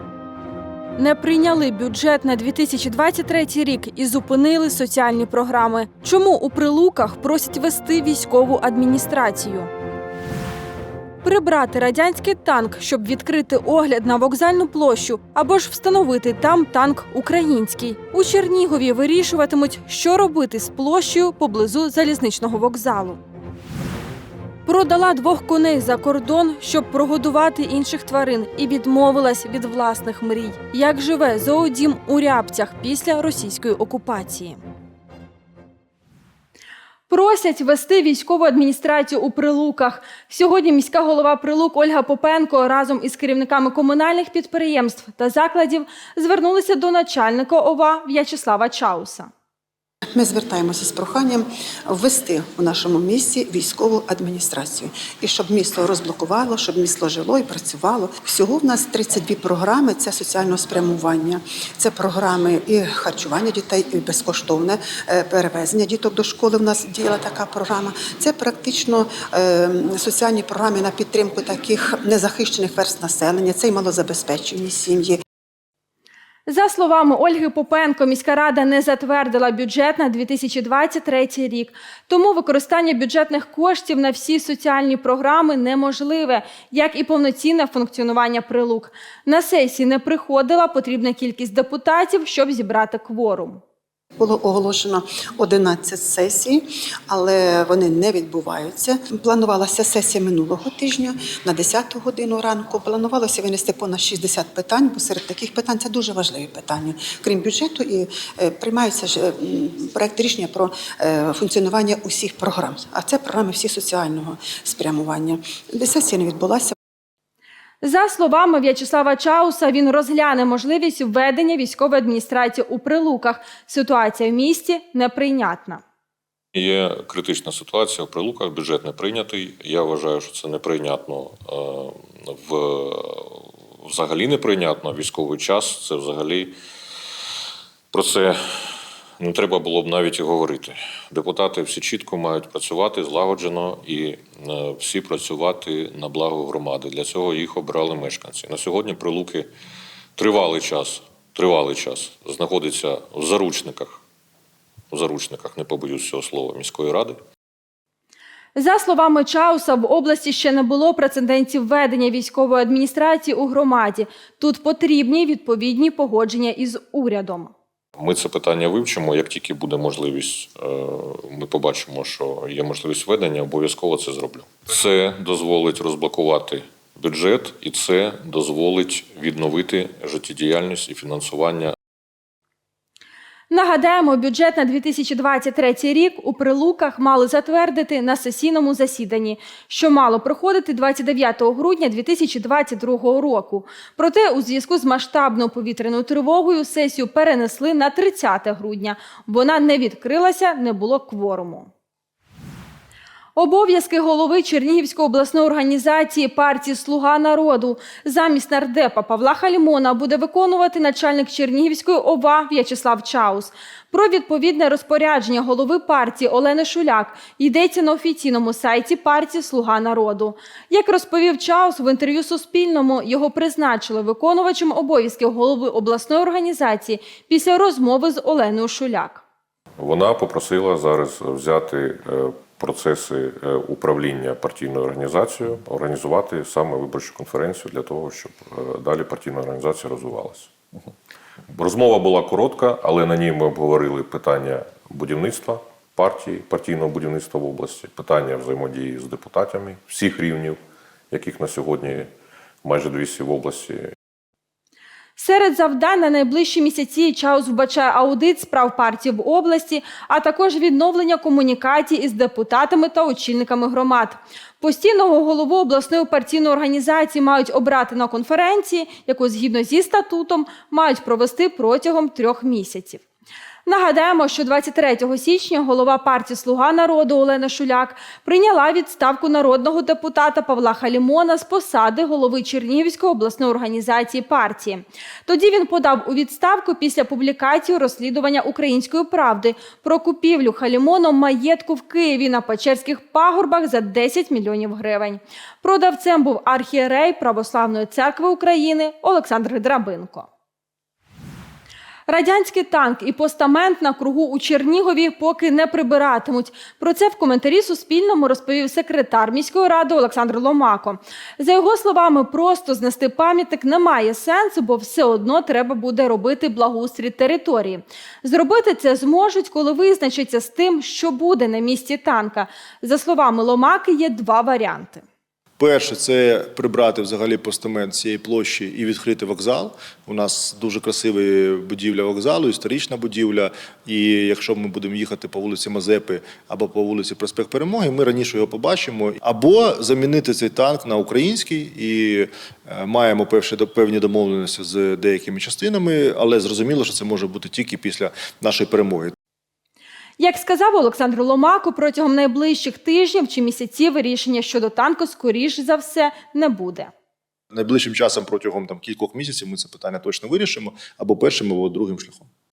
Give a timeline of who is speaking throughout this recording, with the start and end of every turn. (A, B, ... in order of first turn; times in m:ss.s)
0:01.0-0:09.7 A
0:11.2-0:23.2 A
0:24.7-0:34.6 A
0:37.1-0:49.3 A
0:50.2-1:15.2 B
1:16.5-1:33.6 A
1:34.2-1:56.8 B
1:57.8-2:05.8 A
2:06.5-2:16.6 C
2:17.9-2:29.5 C
2:30.2-2:34.0 C
2:34.9-2:37.2 C
2:38.6-2:47.5 A
2:48.0-3:01.8 C
3:03.5-3:21.7 A
3:23.4-3:49.2 A
3:49.8-4:00.5 C
4:01.5-4:10.6 C
4:11.1-4:12.1 C
4:12.6-4:13.9 C
4:15.2-4:33.0 A
4:33.7-5:00.3 A
5:02.1-5:25.0 A
5:25.6-5:49.1 D
5:50.2-5:56.9 A
5:57.5-6:02.3 D